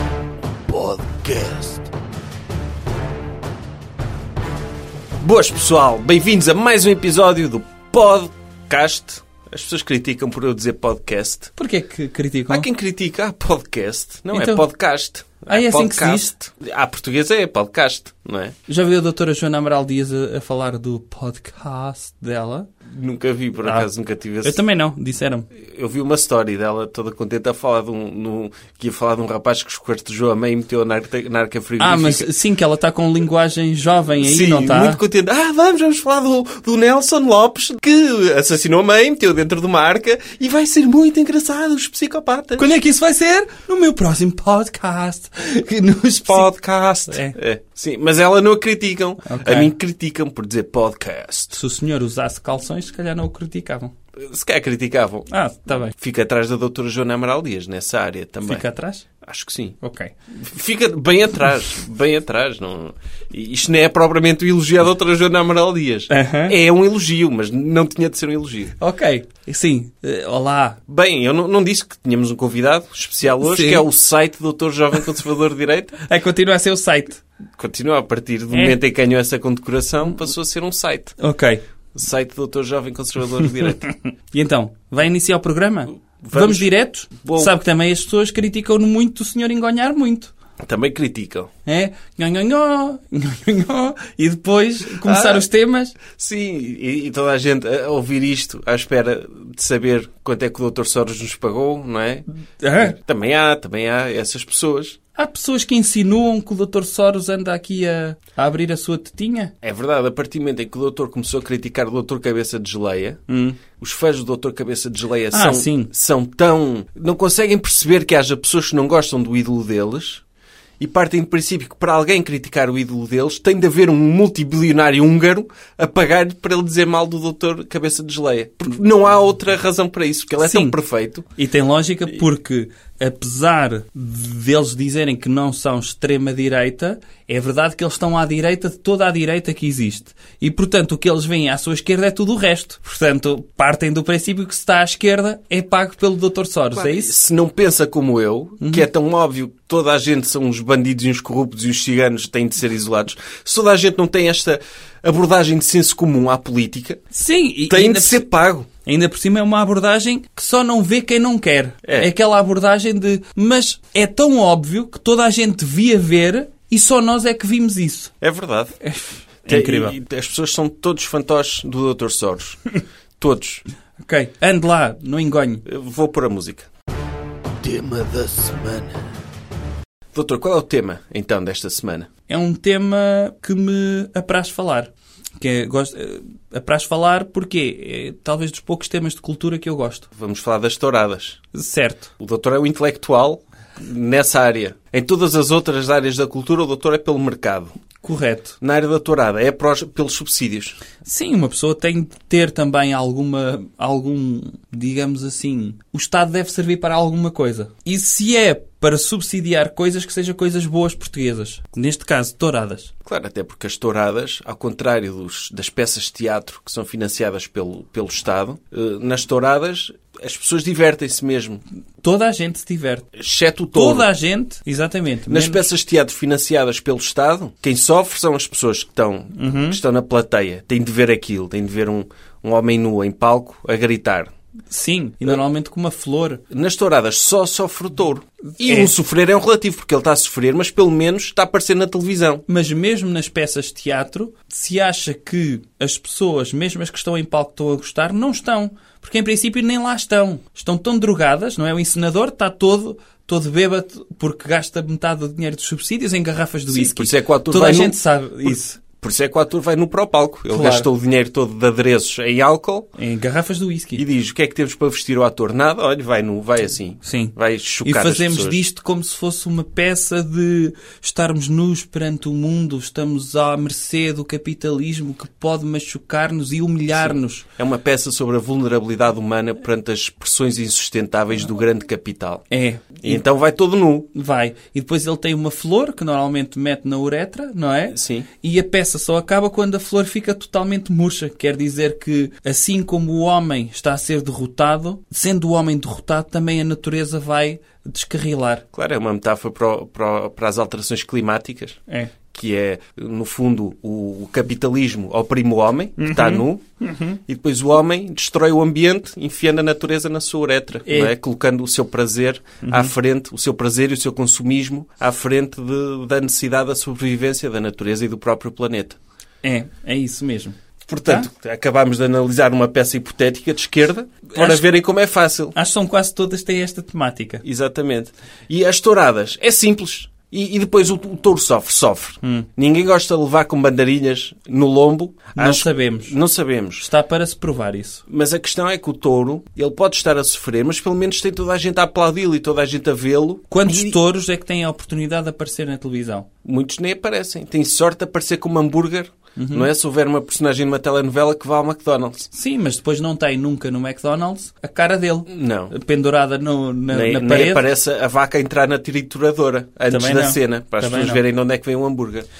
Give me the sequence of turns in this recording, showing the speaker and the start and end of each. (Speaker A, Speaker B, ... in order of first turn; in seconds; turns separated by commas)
Speaker A: 0.7-1.9, Speaker B: 5.2-11.5, Speaker C: 11.6-12.7, Speaker B: 12.5-18.6, Speaker C: 14.3-14.6, Speaker C: 15.5-16.3, Speaker C: 18.7-22.7, Speaker B: 22.9-24.6, Speaker C: 23.6-23.9, Speaker C: 24.4-25.5, Speaker B: 25.6-32.3, Speaker C: 31.8-35.0, Speaker B: 34.2-42.7, Speaker C: 42.6-46.5, Speaker B: 46.3-51.6, Speaker C: 47.1-47.4, Speaker C: 49.2-49.7, Speaker C: 51.5-53.9, Speaker B: 54.2-55.3, Speaker C: 55.3-55.9, Speaker B: 55.9-58.6, Speaker C: 58.5-59.0, Speaker B: 59.2-59.8, Speaker C: 59.8-60.1, Speaker B: 60.3-68.7, Speaker C: 66.1-66.5, Speaker C: 68.8-70.8, Speaker B: 70.9-76.0, Speaker C: 73.4-73.8, Speaker C: 76.0-77.2, Speaker B: 77.6-81.2, Speaker C: 78.5-78.8, Speaker C: 81.2-81.6, Speaker B: 81.9-83.8, Speaker C: 83.4-90.3, Speaker B: 86.2-86.7, Speaker B: 87.2-87.5, Speaker B: 90.6-91.5, Speaker C: 91.7-96.0, Speaker B: 95.0-95.5, Speaker B: 96.1-105.0, Speaker C: 102.6-102.9, Speaker C: 105.1-109.5, Speaker B: 109.6-120.2, Speaker C: 113.3-113.6, Speaker C: 115.3-115.9, Speaker B: 120.8-131.2, Speaker C: 130.4-130.8, Speaker C: 131.3-147.1, Speaker B: 146.7-157.0, Speaker C: 148.6-148.9, Speaker C: 157.1-158.3, Speaker B: 157.7-158.7, Speaker C: 158.8-168.1, Speaker B: 161.8-162.1, Speaker B: 168.2-168.8, Speaker C: 168.8-169.9, Speaker B: 169.4-172.6, Speaker B: 173.2-173.6, Speaker C: 174.0-175.6, Speaker B: 175.7-176.7, Speaker B: 177.6-178.9, Speaker A: 177.7-178.6, Speaker B: 180.1-182.1, Speaker C: 182.3-190.1, Speaker B: 190.1-191.4, Speaker C: 191.5-192.1, Speaker B: 192.2-197.7, Speaker C: 198.0-198.6, Speaker B: 198.6-200.8, Speaker C: 201.0-212.9, Speaker B: 213.0-221.6, Speaker C: 222.0-223.1, Speaker B: 223.2-224.1, Speaker C: 223.7-225.7, Speaker B: 225.3-234.3, Speaker C: 229.3-229.8, Speaker C: 234.7-236.4, Speaker B: 236.5-242.4, Speaker C: 238.6-238.9, Speaker C: 242.5-258.8, Speaker B: 256.7-262.9, Speaker C: 260.5-260.9, Speaker C: 263.0-264.0, Speaker B: 263.9-268.6, Speaker C: 267.0-277.4, Speaker B: 276.9-282.4, Speaker C: 282.5-283.2, Speaker B: 283.0-284.1, Speaker C: 284.1-298.6, Speaker B: 287.9-288.3, Speaker B: 298.7-301.8, Speaker B: 302.3-306.6, Speaker C: 306.0-307.2, Speaker B: 307.2-319.0, Speaker C: 310.9-311.1, Speaker C: 312.6-312.9, Speaker C: 319.4-321.3, Speaker B: 320.9-325.5, Speaker C: 324.3-324.6, Speaker C: 325.5-327.4, Speaker B: 327.4-336.8, Speaker C: 335.4-336.1, Speaker C: 336.8-338.0, Speaker B: 338.1-344.0, Speaker C: 343.5-346.3, Speaker B: 346.4-352.3, Speaker C: 349.4-349.7, Speaker C: 352.3-357.7, Speaker B: 355.3-355.7, Speaker B: 356.9-362.3, Speaker C: 359.9-361.2